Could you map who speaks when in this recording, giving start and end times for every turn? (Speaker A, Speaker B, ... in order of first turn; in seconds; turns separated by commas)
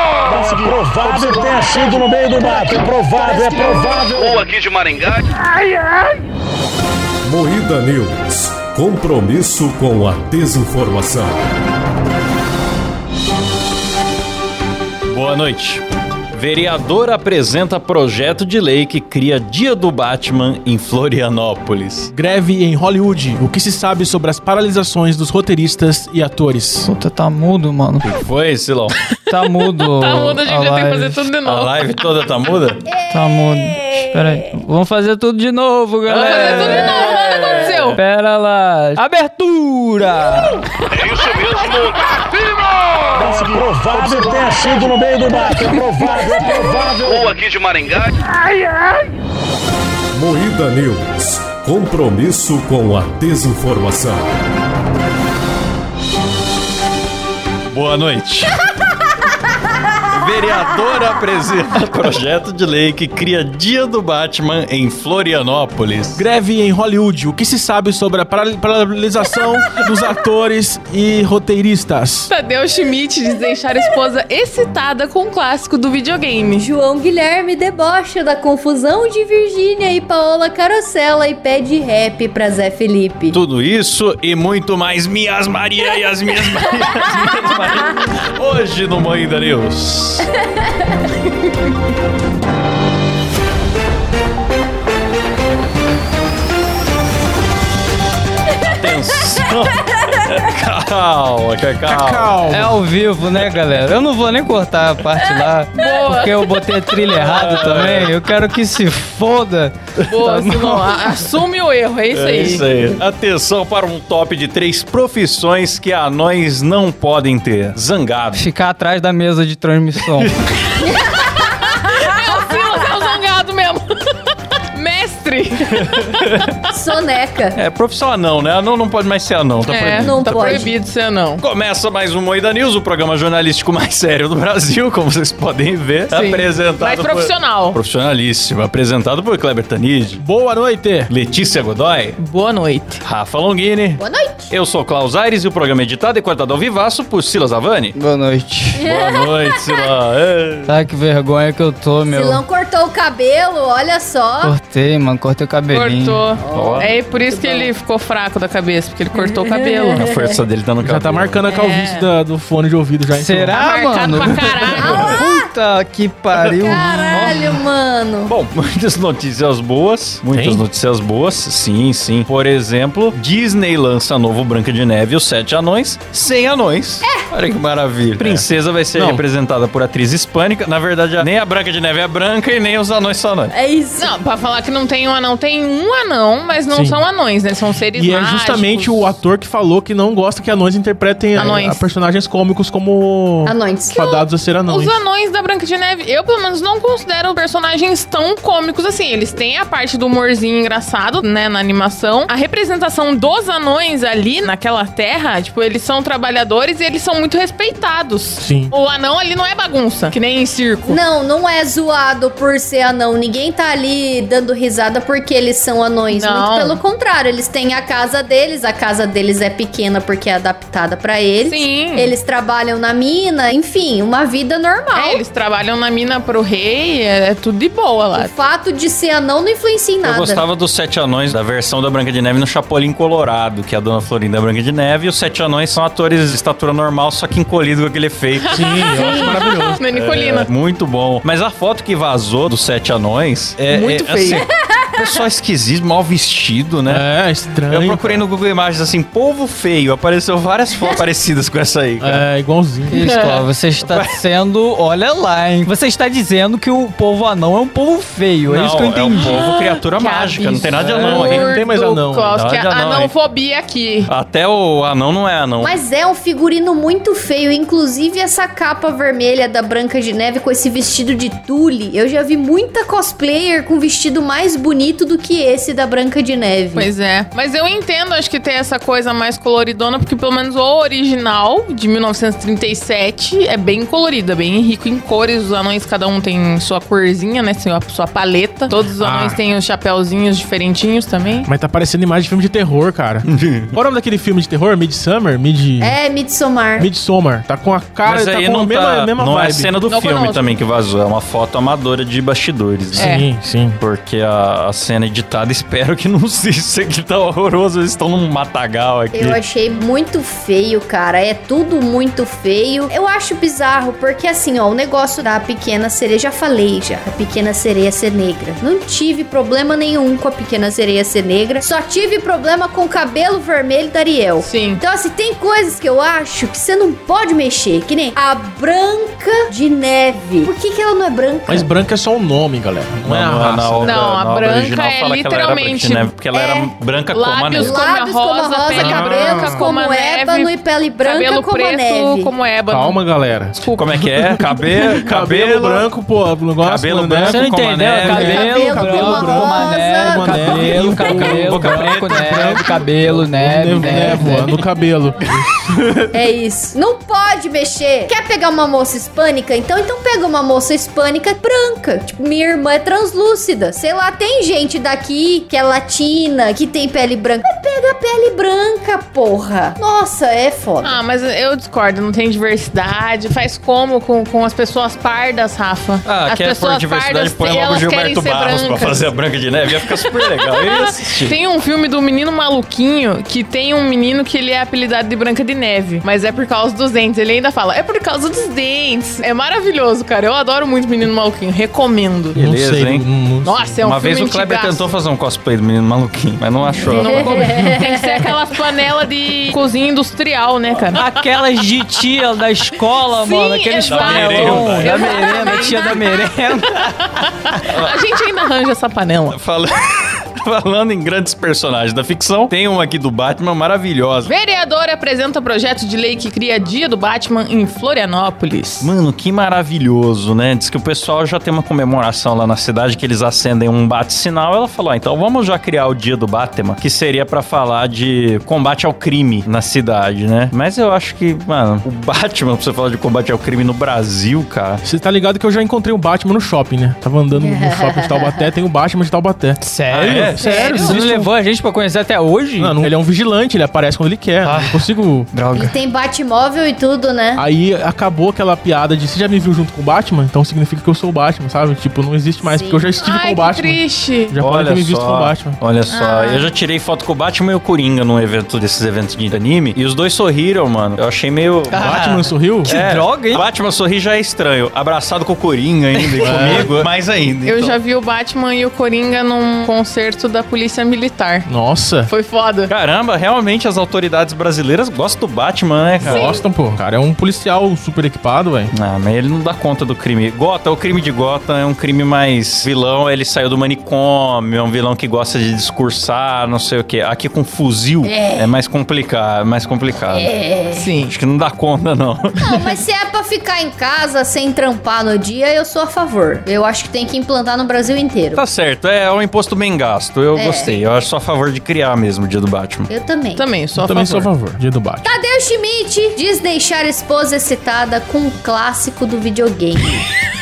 Speaker A: 0.3-4.4, Speaker B: 3.3-4.0, Speaker C: 4.2-5.2, Speaker D: 7.2-11.4, Speaker E: 15.1-15.8, Speaker E: 16.3-22.1, Speaker F: 22.1-26.9, Speaker G: 26.8-28.1, Speaker E: 28.0-29.0, Speaker G: 29.3-31.3, Speaker H: 29.4-31.7, Speaker E: 31.4-32.9, Speaker B: 32.9-34.5, Speaker G: 33.1-37.2, Speaker E: 36.1-37.0, Speaker H: 36.1-38.0, Speaker B: 37.2-37.7, Speaker G: 37.9-40.6, Speaker C: 40.9-42.1, Speaker A: 43.1-47.3, Speaker C: 47.0-48.1, Speaker D: 50.1-54.3, Speaker E: 57.7-58.6, Speaker E: 60.1-66.2, Speaker F: 66.2-72.3, Speaker H: 72.3-76.7, Speaker B: 76.6-83.4, Speaker E: 83.3-90.3, Speaker E: 98.6-102.4, Speaker F: 101.8-102.8, Speaker G: 102.5-110.9, Speaker E: 103.3-103.6, Speaker H: 105.7-107.8, Speaker E: 107.1-108.2, Speaker H: 110.1-112.7, Speaker E: 112.1-118.5, Speaker G: 118.3-120.3, Speaker E: 120.2-120.8, Speaker H: 121.3-126.3, Speaker E: 125.8-126.4, Speaker B: 126.7-127.6, Speaker E: 127.5-130.7, Speaker H: 129.7-131.4, Speaker B: 130.0-130.7, Speaker E: 131.4-140.2, Speaker H: 136.1-137.8, Speaker F: 140.2-141.1, Speaker E: 141.1-142.2, Speaker H: 142.2-143.0, Speaker E: 143.0-147.9, Speaker B: 144.0-144.5, Speaker G: 147.9-148.8, Speaker B: 148.8-149.8, Speaker E: 148.8-150.7, Speaker G: 150.7-152.4, Speaker B: 152.1-154.6, Speaker G: 154.4-156.2, Speaker H: 155.7-160.1, Speaker B: 156.4-157.7, Speaker E: 156.5-157.0, Speaker B: 159.2-160.4, Speaker E: 159.9-161.5, Speaker F: 160.8-163.6, Speaker H: 161.5-162.1, Speaker G: 163.1-167.4, Speaker H: 163.5-165.1, Speaker B: 164.8-165.5, Speaker E: 164.8-165.2, Speaker E: 166.4-167.5, Speaker B: 166.7-168.3, Speaker E: 168.3-183.5, Speaker F: 170.3-170.6, Speaker B: 177.0-177.3, Speaker F: 178.2-179.2, Speaker B: 183.5-184.1, Speaker H: 184.0-189.2, Speaker F: 186.7-187.0, Speaker F: 187.9-195.0, Speaker H: 191.4-191.9, Speaker B: 193.5-194.2, Speaker H: 193.9-211.0, Speaker F: 208.4-208.7, Speaker B: 210.8-225.2, Speaker H: 216.1-216.8, Speaker H: 221.4-222.1, Speaker H: 224.9-228.3, Speaker B: 228.1-230.5, Speaker E: 230.0-247.1, Speaker F: 238.5-239.8, Speaker H: 238.5-240.5, Speaker H: 243.7-244.4, Speaker B: 244.3-244.8, Speaker F: 246.9-248.2, Speaker E: 247.7-252.2, Speaker F: 252.0-253.0, Speaker G: 252.9-259.5, Speaker H: 253.0-253.3, Speaker E: 253.3-254.1, Speaker E: 258.5-261.5, Speaker H: 259.2-264.1, Speaker G: 260.8-261.1, Speaker F: 260.9-262.4, Speaker E: 262.3-263.1, Speaker E: 264.1-265.8, Speaker B: 265.6-276.9, Speaker H: 276.8-291.5, Speaker F: 289.0-289.4, Speaker F: 291.4-296.0, Speaker E: 293.3-293.8, Speaker B: 295.8-296.9, Speaker F: 296.8-299.7, Speaker E: 298.1-303.2, Speaker H: 299.9-300.5, Speaker F: 302.9-303.8, Speaker H: 303.0-303.2, Speaker E: 303.8-309.4, Speaker B: 309.1-331.8, Speaker H: 324.4-324.8, Speaker F: 331.5-334.1, Speaker E: 333.1-337.8, Speaker H: 333.8-336.1, Speaker B: 336.3-336.7, Speaker H: 337.1-343.0, Speaker B: 337.6-342.3, Speaker F: 338.7-339.7, Speaker F: 342.7-355.5, Speaker H: 343.5-343.9, Speaker E: 343.8-345.9, Speaker E: 346.6-348.6, Speaker G: 347.2-354.6, Speaker B: 348.3-350.6, Speaker E: 350.9-352.8, Speaker E: 353.9-354.5, Speaker B: 356.1-371.0, Speaker H: 370.8-379.1, Speaker E: 376.1-381.4, Speaker H: 379.9-392.4, Speaker F: 392.3-393.8, Speaker E: 392.4-393.1, Speaker H: 393.4-394.9, Speaker E: 393.8-397.5, Speaker H: 396.9-401.1, Speaker B: 396.9-398.3, Speaker G: 400.9-406.8, Speaker H: 403.1-407.0, Speaker E: 403.8-405.2, Speaker H: 407.6-409.4, Speaker E: 407.7-408.0, Speaker E: 409.3-414.3, Speaker H: 414.2-418.9, Speaker E: 418.8-434.8, Speaker F: 434.8-441.3, Speaker B: 437.4-438.5, Speaker G: 439.6-442.9, Speaker E: 439.9-440.7, Speaker B: 440.4-441.0, Speaker F: 442.6-445.3, Speaker G: 444.4-445.8, Speaker B: 445.5-447.4, Speaker F: 447.4-455.6, Speaker B: 452.4-452.9, Speaker H: 453.0-454.4, Speaker E: 454.4-462.1, Speaker H: 455.9-456.5, Speaker G: 461.7-463.4, Speaker F: 461.8-462.7, Speaker E: 462.6-467.8, Speaker F: 466.2-466.8, Speaker H: 467.4-471.5, Speaker F: 471.5-472.1, Speaker H: 472.1-472.7, Speaker E: 472.7-476.4, Speaker F: 476.0-478.7, Speaker H: 476.1-476.4, Speaker E: 478.8-490.3, Speaker B: 488.0-488.6, Speaker B: 490.1-490.9, Speaker H: 490.7-491.1, Speaker E: 491.1-492.4, Speaker B: 492.4-498.4, Speaker E: 498.3-502.9, Speaker B: 500.4-500.8, Speaker B: 502.9-503.5, Speaker H: 503.4-504.3, Speaker F: 503.8-505.1, Speaker B: 505.0-510.0